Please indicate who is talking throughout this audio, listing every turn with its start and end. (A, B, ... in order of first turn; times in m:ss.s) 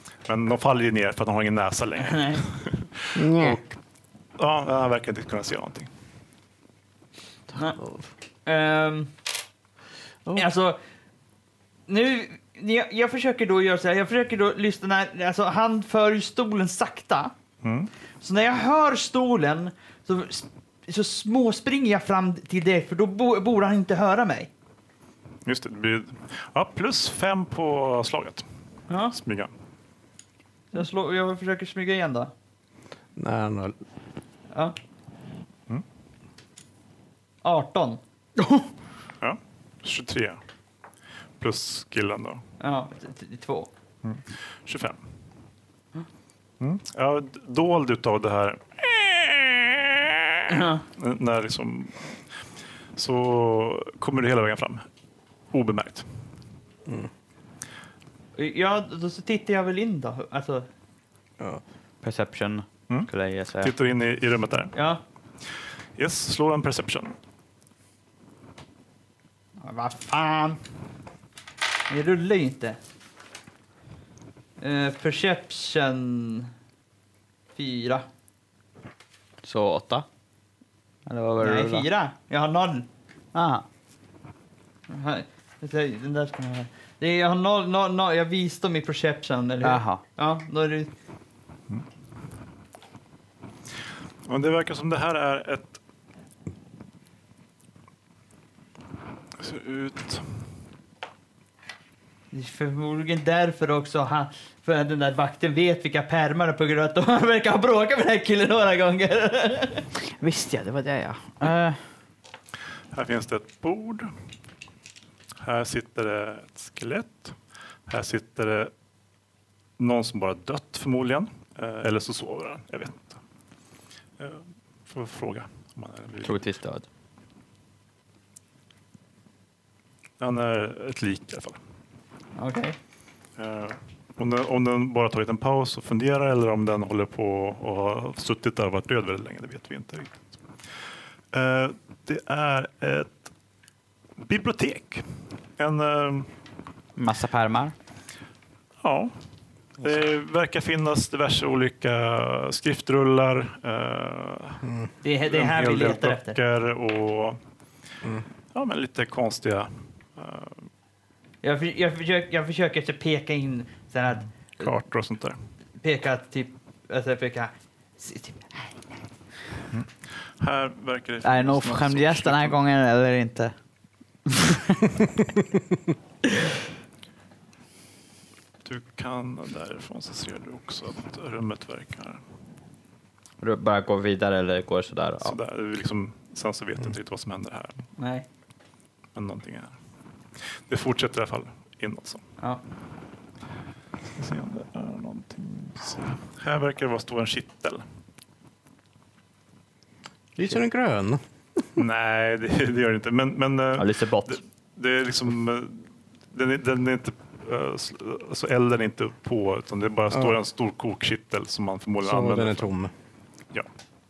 0:00.3-0:03.2 A
0:02.0-0:02.4 B
0:03.1-0:03.7 C
0:04.4-0:05.9 A
0:07.8-0:08.0 C
0:08.4-0:09.1 B
0:10.3-0:10.8 B
0:11.9-0:17.3 B
0:17.6-0:17.9 A
0:18.2-0:24.5 B
0:25.4-0:28.4 A
0:28.9-0:29.1 B
0:29.1-0:29.5 A
0:30.7-0:32.3 B
0:33.2-0:33.7 C
0:37.4-0:38.0 B
0:39.2-0:40.4 A
0:41.4-0:42.4 A
0:42.6-0:43.7 B
0:44.0-0:45.0 A
0:46.6-0:52.0 A
0:50.5-0:50.8 B
0:53.0-0:54.8 A
0:55.5-0:56.0 A
0:58.4-1:00.7 B
1:02.0-1:03.7 D
1:03.6-1:04.7 A
1:04.7-1:05.0 B
1:06.0-1:07.2 A
1:09.6-1:10.6 B
1:11.9-1:12.8 B
1:14.6-1:16.5 B
1:17.6-1:18.0 B
1:19.4-1:20.0 D
1:21.0-1:21.9 D
1:21.4-1:22.9 B
1:23.3-1:23.6 D
1:24.9-1:30.9 B
1:29.6-1:30.0 D
1:34.3-1:35.8 A
1:39.4-1:40.2 A
1:42.3-1:49.8 B
1:50.1-1:51.8 D
1:52.9-1:54.1 A
1:55.4-1:57.4 A
1:57.9-1:58.7 A
1:59.8-2:03.2 A
2:04.2-2:06.4 A
2:06.2-2:06.8 D
2:10.2-2:11.6 A
2:12.4-2:12.8 B
2:13.4-2:20.2 A
2:21.3-2:23.3 A
2:24.2-2:25.0 A
2:25.6-2:26.3 A
2:27.0-2:27.7 D
2:28.8-2:29.1 A
2:29.8-2:34.6 A
2:35.0-2:36.4 B
2:35.3-2:37.4 A
2:38.5-2:40.6 A
2:41.4-2:44.3 B
2:44.6-2:45.4 A
2:45.8-2:48.8 B
2:50.4-2:52.6 A
2:51.2-2:53.5 D
2:54.3-2:54.9 D
2:58.6-3:02.2 A
3:03.4-3:05.4 D
3:05.2-3:07.8 A
3:08.0-3:08.2 B
3:09.1-3:09.7 A
3:10.7-3:12.2 A
3:14.2-3:17.8 A
3:20.4-3:21.2 C
3:21.8-3:32.7 A
3:23.8-3:24.4 D
3:32.0-3:32.9 C